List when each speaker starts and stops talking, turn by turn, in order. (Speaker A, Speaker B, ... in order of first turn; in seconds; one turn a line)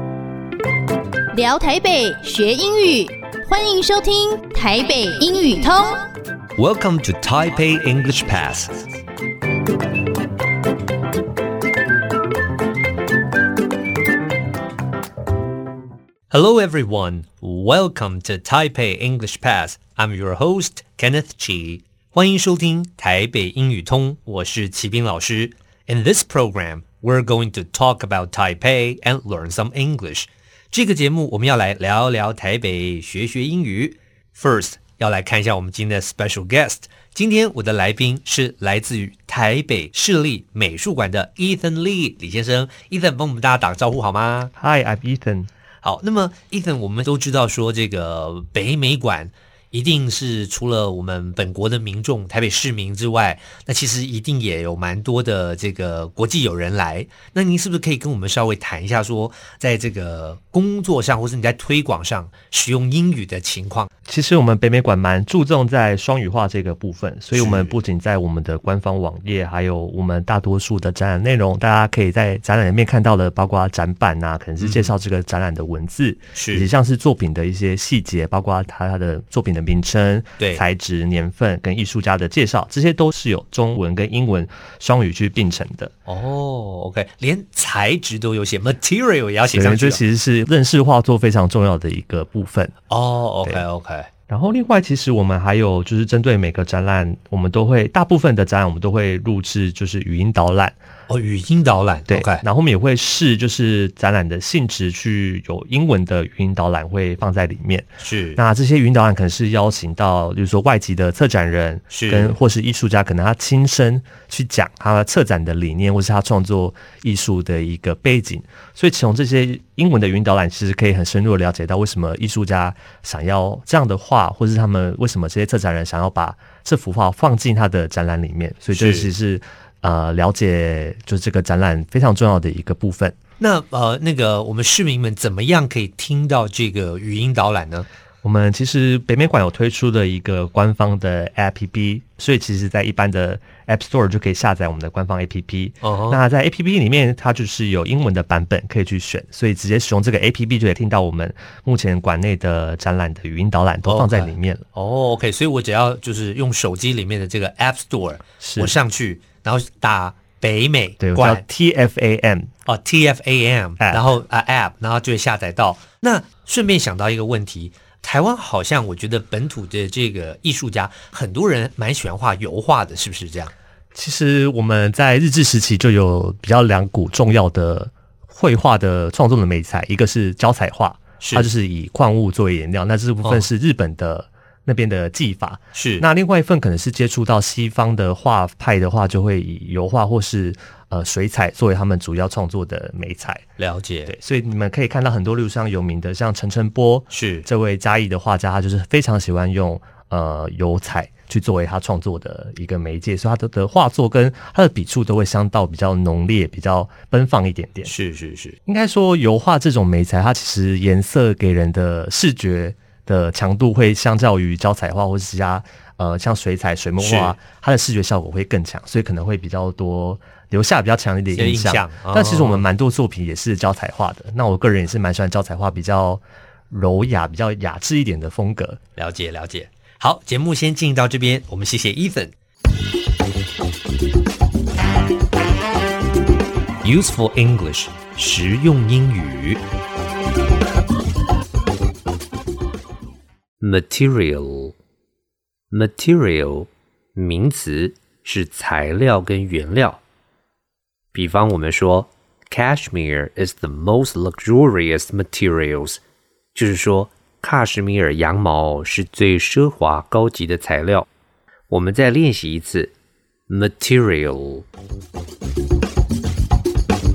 Speaker A: 1.3-6.0
Speaker B: 6.5-8.8
Speaker B: 16.3-44.5
Speaker C: 44.6-45.5
Speaker B: 45.8-63.9
Speaker C: 64.0-85.9
Speaker B: 67.3-67.8
Speaker B: 74.6-74.9
Speaker B: 76.3-76.7
Speaker B: 86.0-90.0
Speaker C: 89.5-92.7
Speaker B: 92.9-94.1
Speaker C: 94.3-100.8
Speaker B: 101.1-102.4
Speaker C: 102.1-133.2
Speaker B: 108.0-108.4
Speaker B: 111.9-112.3
Speaker B: 128.7-129.1
Speaker B: 133.4-137.9
Speaker C: 138.2-154.6
Speaker B: 145.8-146.2
Speaker B: 153.8-161.4
Speaker C: 158.4-158.7
Speaker C: 161.0-162.5
Speaker B: 162.7-173.5
Speaker C: 163.8-164.0
Speaker C: 173.9-193.4
Speaker B: 181.2-181.5
Speaker B: 185.7-186.0
Speaker B: 193.6-194.1
Speaker C: 194.1-207.9
Speaker B: 197.1-197.5
Speaker B: 207.8-208.6
Speaker C: 208.7-228.8
Speaker B: 217.0-217.3
Speaker B: 221.3-222.6
Speaker B: 228.9-232.3
Speaker B: 236.8-239.6
Speaker B: 243.6-244.8
Speaker B: 245.7-250.0
Speaker B: 251.1-256.0
Speaker B: 256.5-261.1
Speaker B: 261.7-262.9
Speaker B: 263.5-264.6